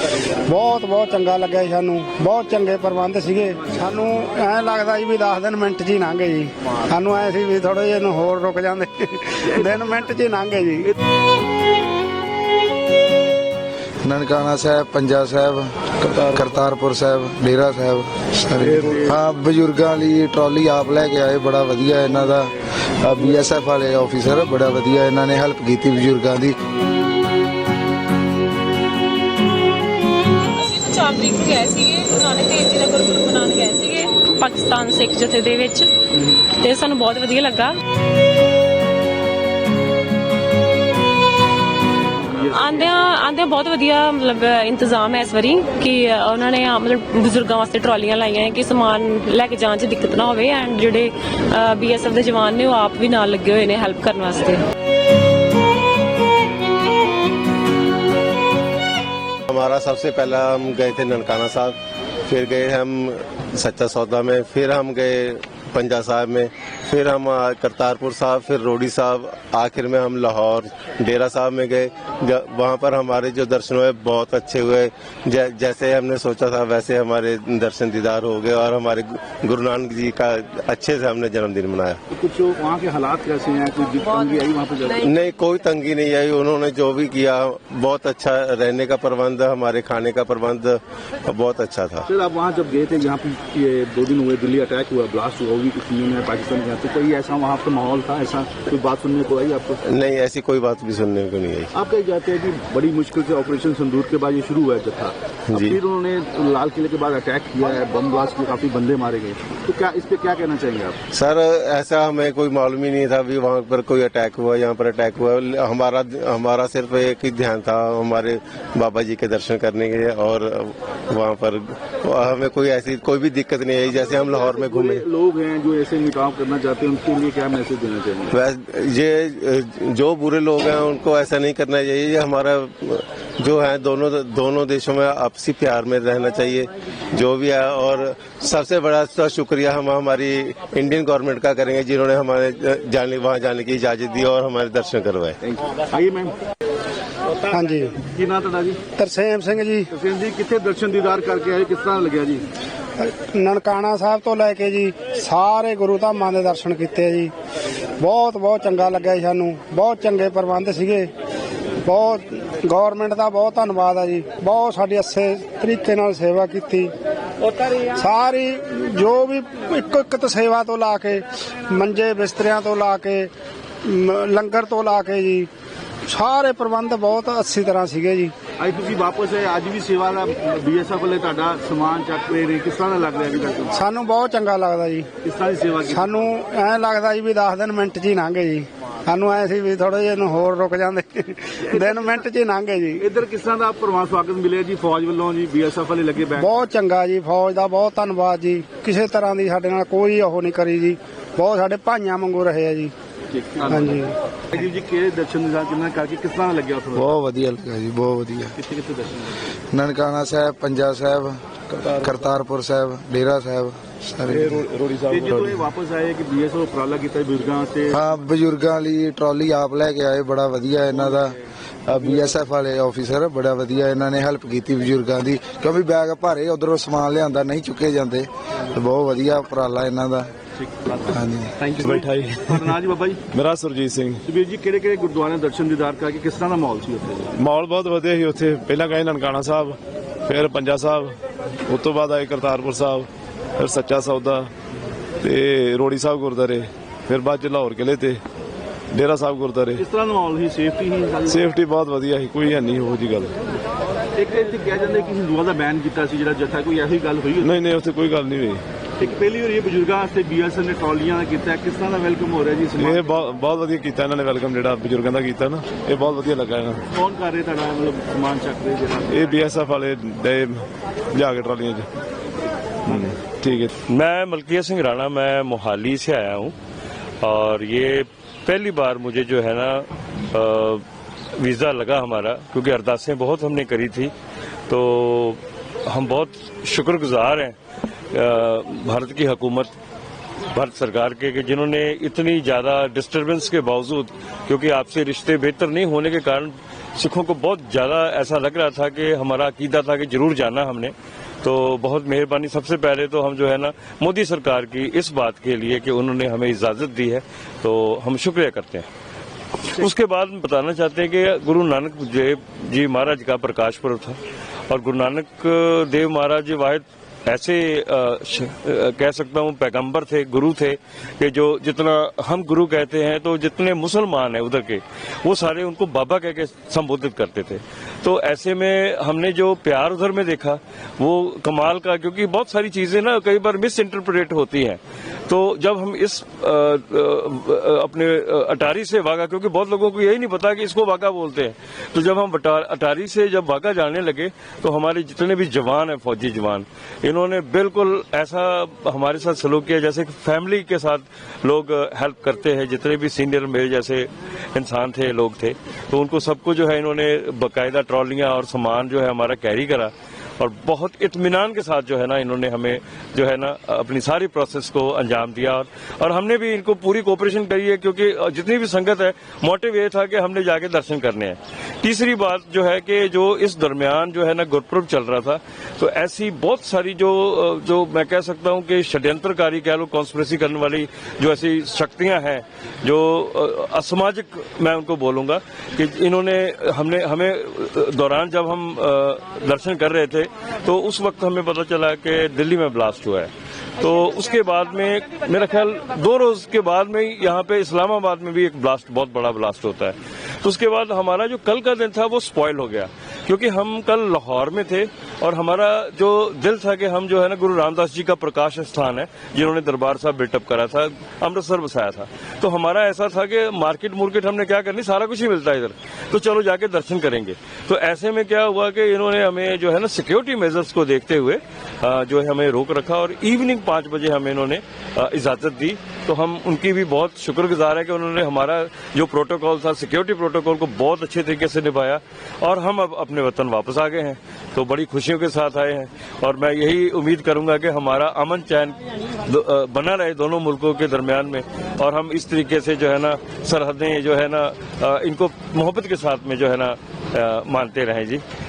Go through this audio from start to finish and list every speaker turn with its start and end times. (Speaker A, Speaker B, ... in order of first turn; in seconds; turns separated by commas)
Speaker A: 0.5-10.9, Speaker B: 14.0-26.6, Speaker C: 16.0-16.4, Speaker C: 18.6-19.0, Speaker D: 30.6-35.9, Speaker D: 36.5-37.7, Speaker E: 42.2-42.9, Speaker D: 42.4-54.6, Speaker F: 59.5-61.8, Speaker F: 62.2-82.0, Speaker E: 82.1-85.1, Speaker F: 85.0-92.1, Speaker E: 92.1-99.8, Speaker F: 99.9-101.7, Speaker E: 101.7-111.0, Speaker F: 105.5-105.8, Speaker F: 111.1-125.0, Speaker E: 124.2-128.3, Speaker F: 128.3-145.4, Speaker E: 145.4-146.4, Speaker A: 147.5-148.0, Speaker E: 148.0-148.8, Speaker A: 149.0-149.9, Speaker E: 149.9-152.4, Speaker A: 153.0-157.3, Speaker A: 158.0-161.1, Speaker A: 161.8-166.9, Speaker A: 167.8-173.3, Speaker A: 173.8-175.5, Speaker A: 176.1-178.3, Speaker E: 178.6-183.8, Speaker A: 183.7-185.1, Speaker E: 185.2-186.3, Speaker A: 185.9-193.1, Speaker E: 191.6-192.3, Speaker E: 193.0-196.5, Speaker A: 196.4-202.9, Speaker E: 203.3-207.0, Speaker A: 203.7-204.1, Speaker B: 206.9-208.6, Speaker E: 208.6-209.3, Speaker B: 209.7-211.4, Speaker C: 211.8-212.1, Speaker B: 212.0-214.7, Speaker C: 214.3-215.5, Speaker E: 215.1-218.0, Speaker B: 215.3-215.6, Speaker B: 217.9-230.3, Speaker E: 230.6-231.0, Speaker B: 231.1-231.6, Speaker E: 231.6-233.2, Speaker C: 231.8-232.7, Speaker C: 233.3-234.2, Speaker E: 234.2-237.3, Speaker C: 237.3-241.1, Speaker C: 241.7-244.5, Speaker C: 245.2-248.2, Speaker C: 248.9-249.8, Speaker E: 249.8-251.5, Speaker C: 251.3-253.3, Speaker E: 254.2-257.6, Speaker C: 257.4-258.6, Speaker E: 259.0-263.2, Speaker C: 262.9-266.8, Speaker E: 266.9-269.4, Speaker C: 269.1-271.9, Speaker E: 272.9-273.1, Speaker C: 272.9-273.7, Speaker G: 273.9-276.5, Speaker G: 277.2-280.8, Speaker G: 281.4-284.1, Speaker G: 284.7-287.6, Speaker G: 288.1-289.7, Speaker G: 290.5-308.9, Speaker G: 309.7-314.2, Speaker G: 314.7-448.2